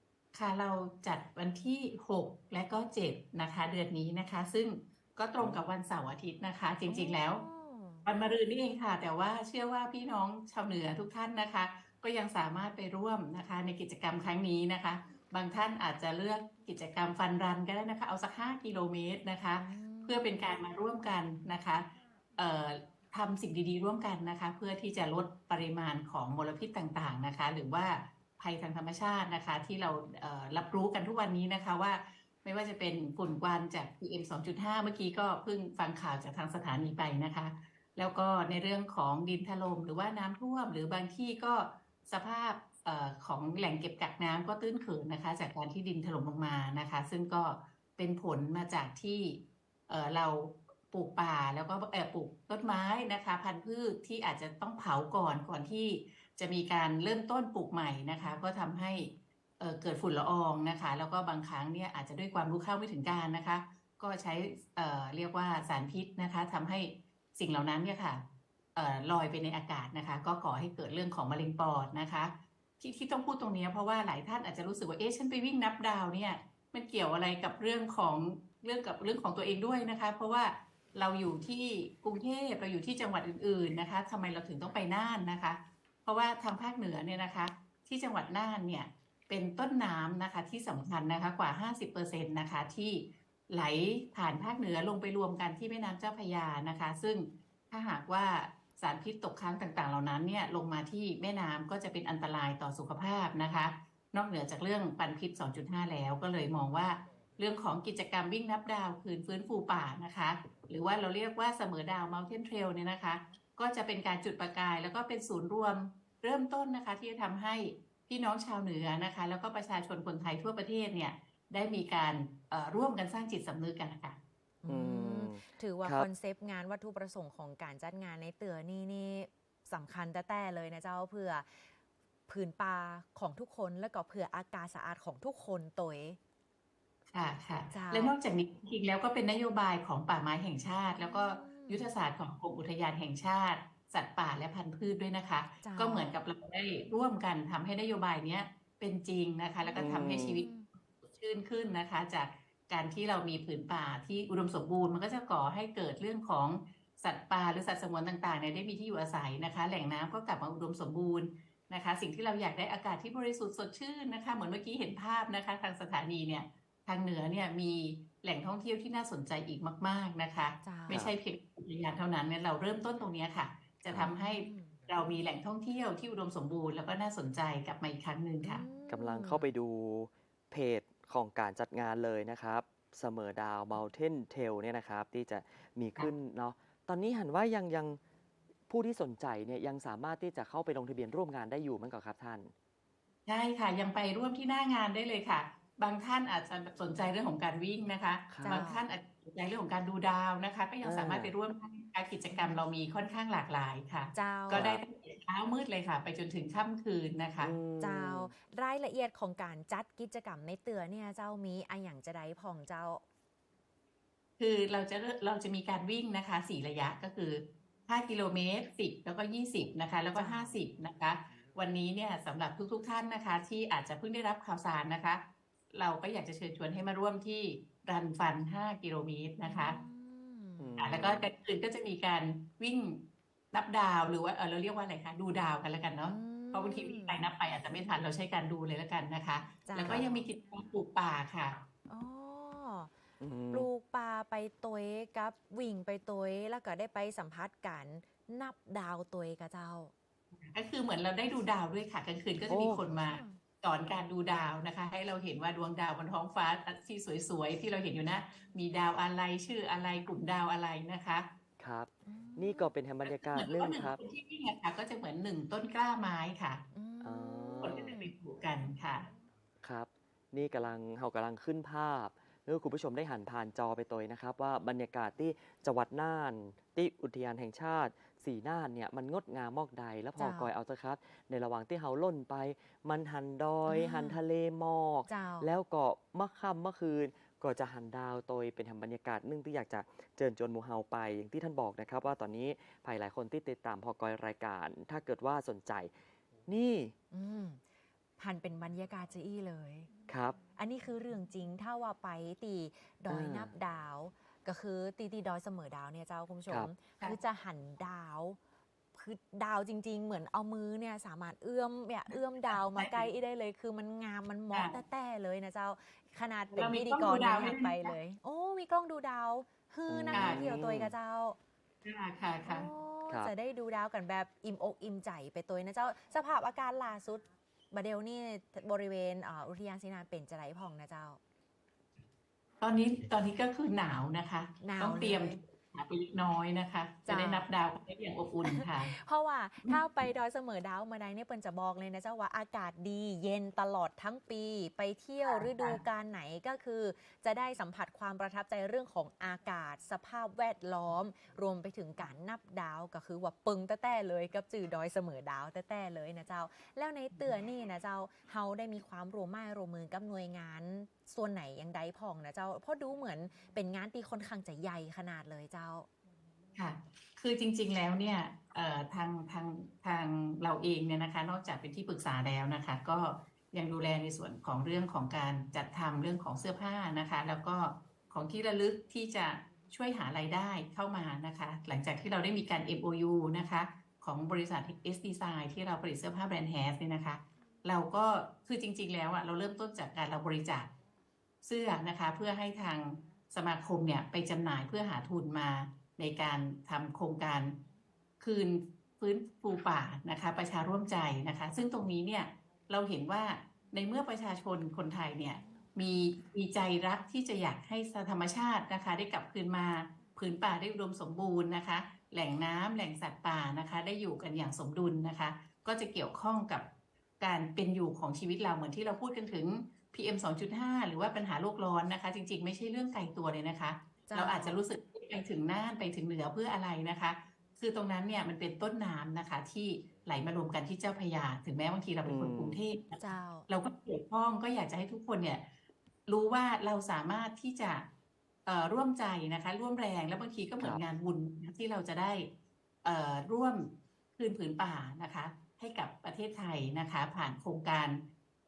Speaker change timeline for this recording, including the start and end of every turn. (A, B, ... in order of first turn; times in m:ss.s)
0:00.3-0:07.4 A
0:05.4-0:05.6 B
0:06.9-0:08.1 C
0:08.0-1:08.2 A
0:19.6-0:20.3 C
1:08.7-2:04.2 A
2:04.6-2:11.7 C
2:04.7-2:06.1 B
2:12.3-2:16.2 C
2:17.1-2:58.6 A
2:17.7-2:18.1 C
2:20.9-2:21.9 C
2:25.6-2:26.2 C
2:29.6-2:30.7 C
2:29.8-2:30.4 B
2:50.6-2:51.1 C
2:53.9-2:54.8 C
2:58.4-2:59.5 C
2:58.9-3:08.0 B
3:08.7-3:12.5 B
3:13.2-3:27.5 A
3:18.3-3:18.7 B
3:18.4-3:18.8 C
3:20.8-3:21.3 B
3:22.3-3:22.6 C
3:24.1-3:24.6 C
3:24.5-3:24.8 B
3:27.4-3:28.3 B
3:27.8-3:33.0 C
3:34.4-3:49.8 A
3:40.1-3:40.6 C
3:49.4-3:50.7 C
3:50.6-3:51.2 B
3:50.8-4:01.6 A
3:56.0-3:57.2 C
3:59.6-4:00.2 C
4:01.9-4:02.9 C
4:03.2-4:03.7 B
4:03.5-4:09.9 C
4:10.4-4:21.3 A
4:12.4-4:13.4 C
4:12.5-4:12.8 B
4:21.6-4:24.0 B
4:22.0-4:22.7 C
4:23.0-4:26.6 A
4:26.7-4:28.1 C
4:27.0-4:27.9 B
4:27.6-4:29.1 A
4:29.6-4:55.9 B
4:40.2-4:40.5 C
4:43.7-4:44.2 C
4:45.1-4:45.5 C
4:56.5-4:56.9 B
4:57.1-4:57.6 C
4:58.2-4:59.9 C
5:00.1-5:00.4 B
5:00.6-5:08.4 C
5:03.1-5:03.5 B
5:06.5-5:06.7 B
5:08.9-5:21.4 C
5:12.1-5:13.1 A
5:14.5-5:14.8 A
5:16.5-5:17.9 A
5:19.9-5:20.9 B
5:20.1-5:20.5 A
5:21.8-5:22.7 A
5:22.4-5:31.2 C
5:32.6-5:38.9 A
5:34.6-5:35.4 C
5:37.0-5:37.4 C
5:38.4-6:05.9 C
5:45.2-5:45.8 A
5:57.1-5:57.4 A
6:06.5-6:30.7 A
6:31.4-6:37.6 A
6:38.2-6:56.7 A
6:45.3-6:45.6 C
6:57.2-7:15.5 A
7:04.1-7:04.6 C
7:12.0-7:12.6 B
7:13.0-7:13.5 C
7:16.1-7:17.9 A
7:18.4-7:22.3 A
7:22.8-7:28.0 A